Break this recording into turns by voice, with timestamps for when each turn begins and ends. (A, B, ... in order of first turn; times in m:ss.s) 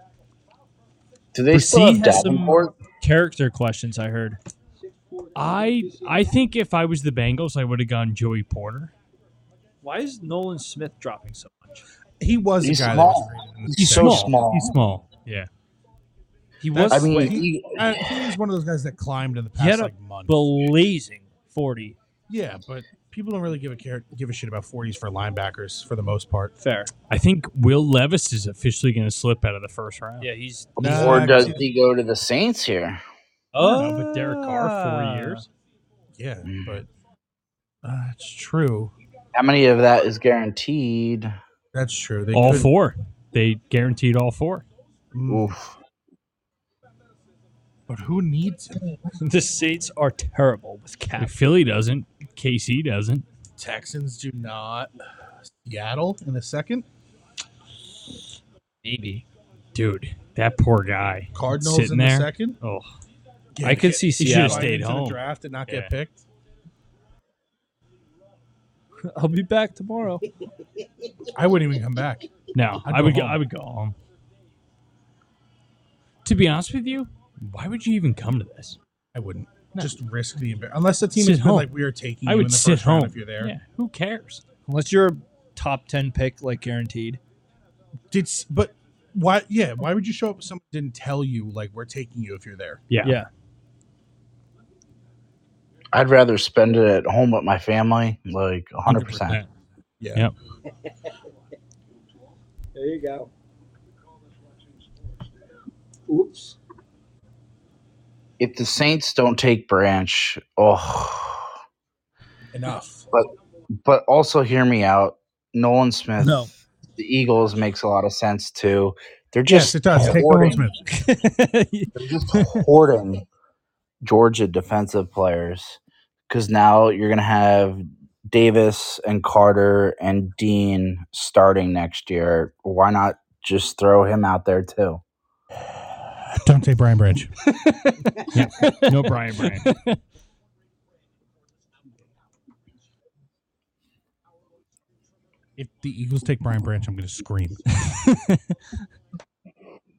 0:01.3-0:02.7 A
0:01.5-0:04.4 B
0:04.7-0:06.4 C
0:05.3-0:08.9 D
0:09.8-0:11.8 B
0:12.2-0:14.3 E
0:12.6-0:14.8 A
0:13.9-0:15.5 D
0:16.6-0:17.4 B
0:16.7-0:20.7 E
0:16.9-0:18.3 A
0:19.6-0:22.0 B
0:22.3-0:26.5 E
0:26.6-0:26.9 B
0:27.1-0:30.3 D
0:30.2-0:31.5 B
0:30.8-0:33.0 A
0:30.8-0:31.6 E
0:33.5-0:35.4 B
0:33.6-0:34.4 E
0:33.7-0:35.4 D
0:36.2-0:36.9 E
0:36.4-0:36.8 A
0:37.8-0:38.9 E
0:39.3-0:41.3 A
0:41.7-0:42.7 E
0:42.3-0:44.6 D
0:45.1-0:45.6 E
0:45.3-0:45.8 A
0:47.9-0:48.9 E
0:49.2-0:51.4 B
0:51.2-0:53.2 D
0:53.6-0:54.9 E
0:55.4-0:56.8 E
0:58.8-0:59.2 B
0:59.7-1:02.9 D
1:01.3-1:02.6 E
1:03.5-1:06.2 E
1:03.6-1:04.7 B
1:04.2-1:05.9 D
1:09.0-1:10.2 B
1:10.6-1:11.3 C
1:11.3-1:12.3 E
1:12.5-1:13.9 D
1:12.8-1:13.4 E
1:16.2-1:18.8 D
1:19.1-1:23.5 E
1:21.2-1:21.7 D
1:22.2-1:24.4 D
1:24.7-1:27.2 B
1:28.1-1:32.8 E
1:32.9-1:33.2 D
1:33.0-1:33.3 B
1:35.9-1:39.4 A
1:38.8-1:39.5 D
1:40.0-1:40.3 E
1:40.6-1:41.1 C
1:42.7-1:43.3 C
1:46.1-1:46.6 C
1:48.4-1:51.5 A
1:52.5-1:53.1 E
1:53.8-2:00.6 A
1:56.2-1:56.5 B
1:59.5-2:00.8 E
2:00.9-2:02.6 B
2:01.9-2:03.2 A
2:04.0-2:15.0 A
2:16.3-2:17.3 E
2:17.5-2:20.0 B
2:18.3-2:19.7 D
2:25.6-2:27.6 E
2:27.9-2:28.4 B